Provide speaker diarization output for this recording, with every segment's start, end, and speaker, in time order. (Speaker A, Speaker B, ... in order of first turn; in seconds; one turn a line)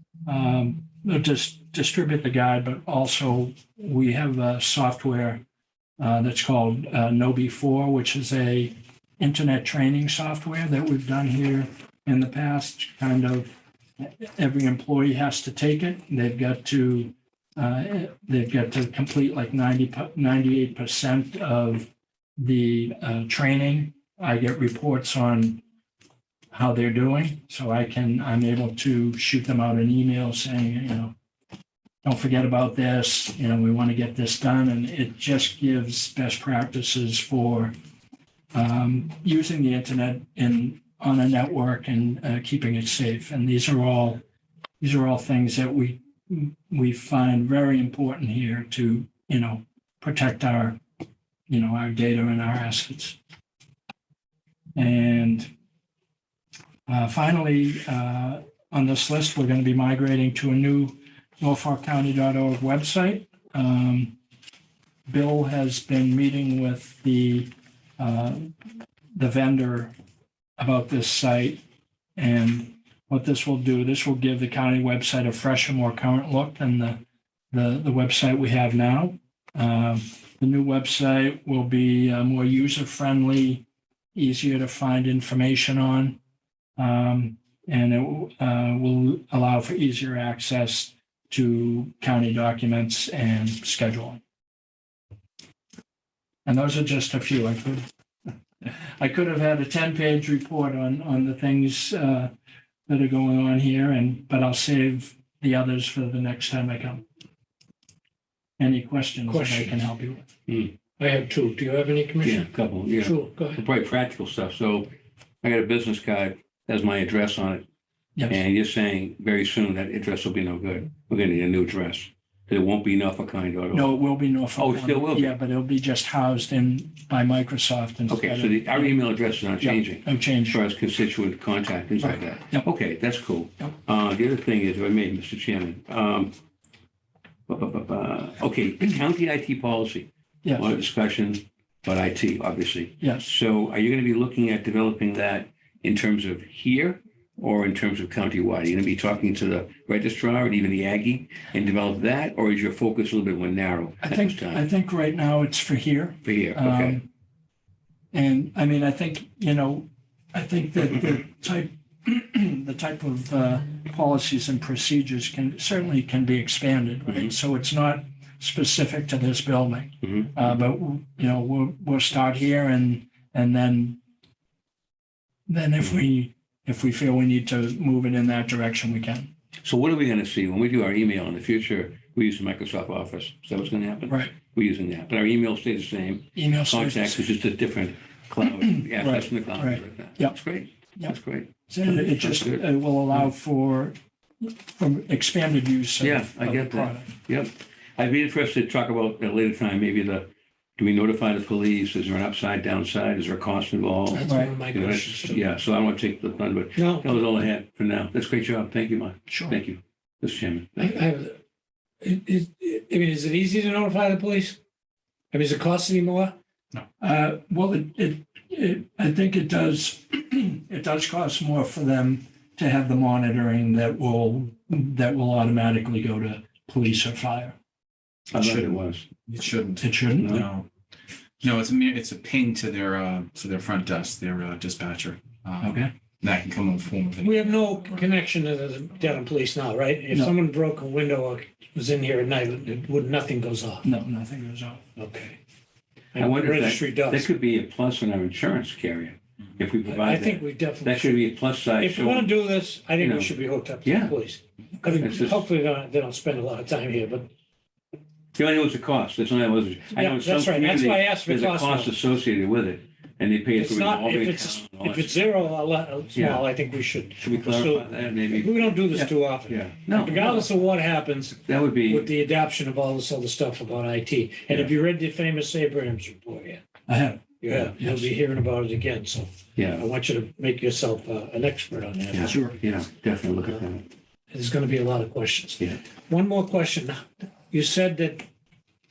Speaker A: 0.2-5.4
Speaker A: 6.0-25.6
Speaker A: 26.5-31.1
Speaker A: 32.0-37.7
Speaker A: 38.5-44.2
Speaker A: 44.8-50.8
Speaker A: 51.5-53.2
Speaker A: 54.7-55.5
Speaker A: 56.9-64.1
Speaker A: 65.1-68.5
Speaker A: 69.1-69.9
Speaker A: 70.6-71.6
Speaker A: 72.2-77.0
Speaker A: 77.5-86.2
Speaker A: 86.8-94.2
Speaker A: 96.5-97.8
Speaker A: 98.7-102.3
Speaker A: 102.9-107.0
Speaker A: 108.6-110.3
Speaker B: 109.3-109.7
Speaker C: 110.5-110.7
Speaker B: 111.0-113.6
Speaker C: 112.2-114.9
Speaker C: 115.4-117.6
Speaker C: 118.3-123.9
Speaker A: 123.7-129.1
Speaker C: 124.6-125.3
Speaker C: 128.1-136.3
Speaker A: 129.6-130.6
Speaker A: 132.1-132.7
Speaker C: 137.5-154.6
Speaker A: 140.4-140.8
Speaker A: 143.0-143.2
Speaker A: 154.0-157.1
Speaker C: 156.2-157.0
Speaker A: 158.1-174.0
Speaker C: 167.1-167.3
Speaker C: 170.0-170.5
Speaker A: 175.5-179.3
Speaker C: 179.6-193.2
Speaker A: 184.1-184.3
Speaker A: 186.3-187.3
Speaker A: 188.6-190.4
Speaker A: 191.7-197.1
Speaker C: 196.0-211.0
Speaker B: 204.1-205.4
Speaker A: 204.2-204.5
Speaker B: 206.8-207.1
Speaker A: 209.3-209.6
Speaker B: 210.8-211.4
Speaker B: 212.0-214.6
Speaker B: 215.3-216.4
Speaker A: 217.0-227.6
Speaker C: 228.3-229.1
Speaker D: 228.3-230.7
Speaker A: 229.8-230.4
Speaker C: 230.2-230.4
Speaker D: 231.4-238.1
Speaker A: 235.6-235.9
Speaker B: 237.2-243.9
Speaker A: 243.8-244.8
Speaker B: 244.9-245.3
Speaker B: 246.1-247.3
Speaker C: 246.2-252.3
Speaker B: 249.9-251.2
Speaker B: 251.8-257.3
Speaker C: 253.0-254.1
Speaker C: 254.9-255.4
Speaker C: 258.4-265.4
Speaker B: 259.9-261.9
Speaker B: 263.6-276.6
Speaker C: 266.1-266.5
Speaker C: 267.2-270.4
Speaker C: 271.4-272.1
Speaker A: 276.9-278.1
Speaker B: 277.4-282.5
Speaker C: 279.6-279.9
Speaker C: 282.1-283.9
Speaker A: 282.2-282.6
Speaker B: 284.3-288.2